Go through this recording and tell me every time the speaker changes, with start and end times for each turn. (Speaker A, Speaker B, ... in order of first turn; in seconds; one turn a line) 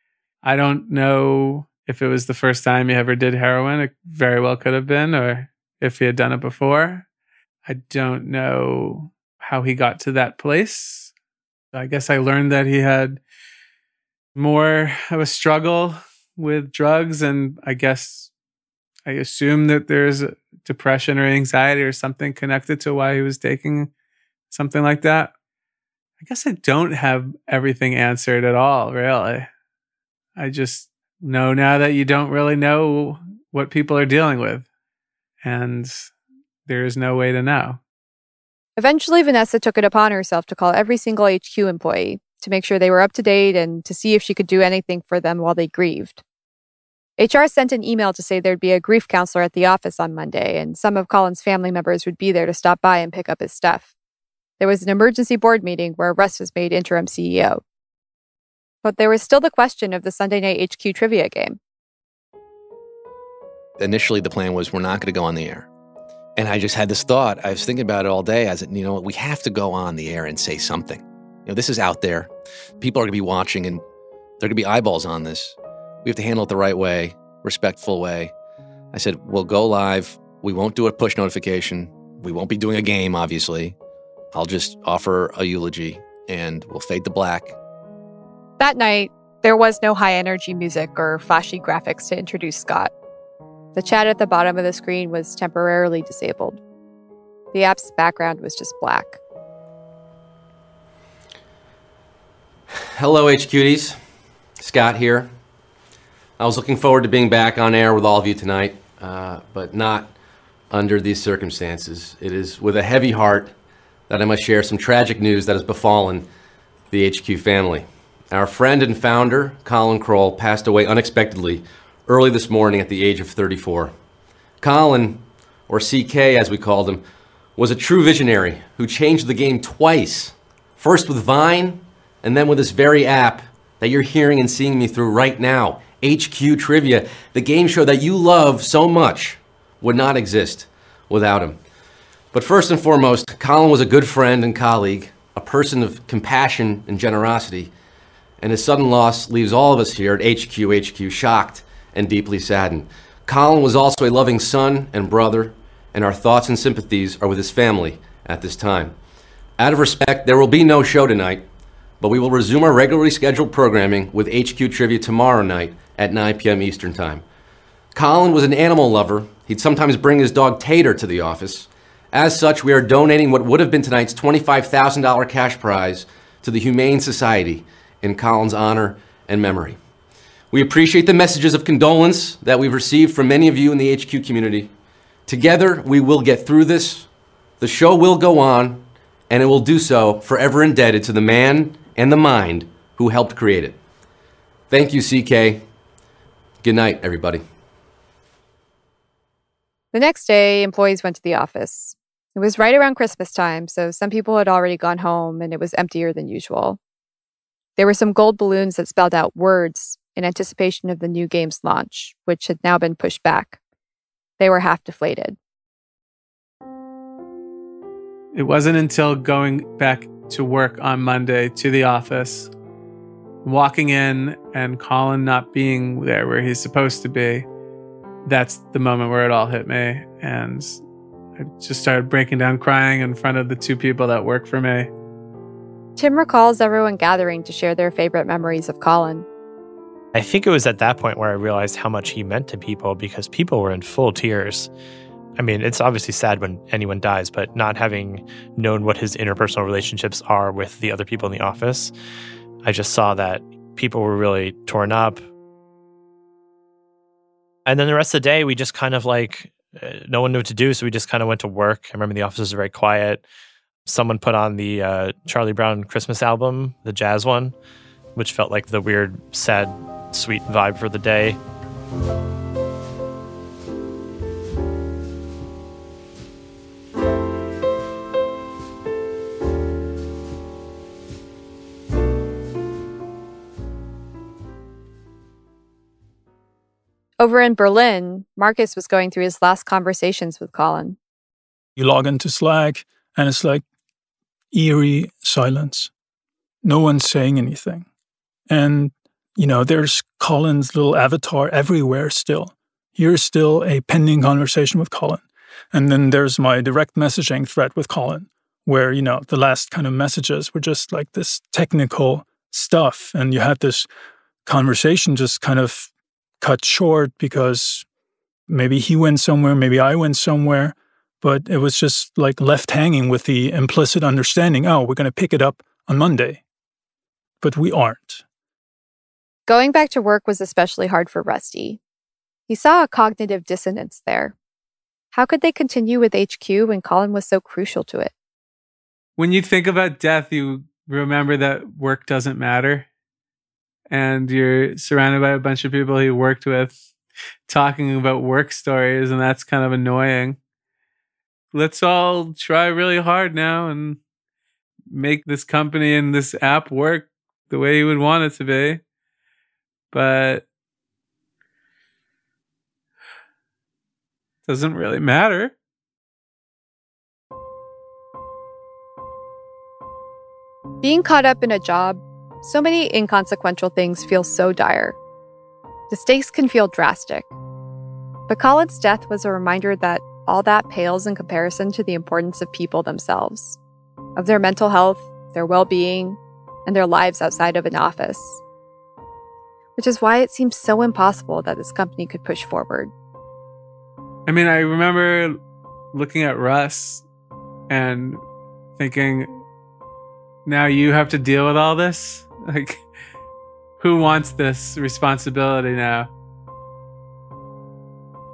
Speaker A: 0.4-7.0
Speaker A: 7.6-11.1
Speaker A: 11.7-13.2
Speaker A: 14.3-18.3
Speaker A: 19.1-23.9
Speaker A: 24.5-25.3
Speaker A: 26.2-29.5
Speaker A: 30.4-34.7
Speaker A: 35.4-36.1
Speaker A: 36.6-37.8
Speaker B: 38.8-46.2
Speaker B: 47.2-53.9
Speaker B: 54.6-57.6
Speaker B: 58.8-61.6
Speaker C: 63.8-65.7
Speaker C: 66.4-73.8
Speaker C: 74.4-78.3
Speaker C: 78.9-83.7
Speaker C: 84.3-87.5
Speaker B: 88.6-92.9
Speaker B: 93.7-96.6
Speaker B: 97.5-99.2
Speaker D: 102.9-104.0
Speaker D: 104.6-105.3
Speaker D: 106.4-110.1
Speaker D: 110.7-113.5
Speaker D: 114.1-116.3
Speaker D: 116.9-123.9
Speaker D: 124.6-127.0
Speaker D: 127.6-141.6
Speaker D: 142.3-147.7
Speaker D: 148.4-158.9
Speaker D: 159.6-161.4
Speaker D: 162.0-167.2
Speaker D: 167.9-179.8
Speaker D: 180.5-184.7
Speaker D: 185.3-187.1
Speaker D: 187.6-193.8
Speaker D: 194.7-195.6
Speaker D: 196.6-197.4
Speaker B: 199.9-206.8
Speaker B: 207.8-213.6
Speaker B: 214.4-215.4
Speaker A: 218.3-222.5
Speaker A: 223.4-227.4
Speaker A: 228.2-230.8
Speaker A: 231.4-234.9
Speaker B: 236.0-239.2
Speaker E: 240.1-244.7
Speaker E: 245.3-251.9
Speaker E: 252.6-255.2
Speaker E: 257.6-263.2
Speaker E: 263.9-267.5
Speaker E: 268.1-271.4
Speaker B: 287.2-291.0
Speaker F: 291.8-293.6
Speaker F: 294.5-295.9
Speaker F: 296.6-297.9
Speaker F: 298.5-313.9
Speaker F: 314.4-317.8
Speaker F: 318.5-326.4
Speaker F: 327.4-328.2
Speaker B: 329.5-331.8
Speaker B: 332.5-334.3
Speaker B: 335.1-338.1
Speaker A: 339.2-342.9
Speaker A: 343.9-346.8
Speaker A: 347.5-350.4
Speaker A: 351.5-354.0
Speaker A: 354.9-358.8
Speaker A: 359.9-360.4
Speaker A: 364.5-365.5
Speaker B: 370.8-375.0
Speaker B: 375.9-377.3
Speaker B: 378.3-383.6
Speaker B: 384.1-388.4
Speaker B: 389.8-392.9
Speaker A: 394.3-395.4
Speaker A: 395.9-397.0
Speaker A: 397.7-398.2
Speaker A: 398.8-399.3
Speaker A: 400.4-402.8
Speaker A: 403.8-406.1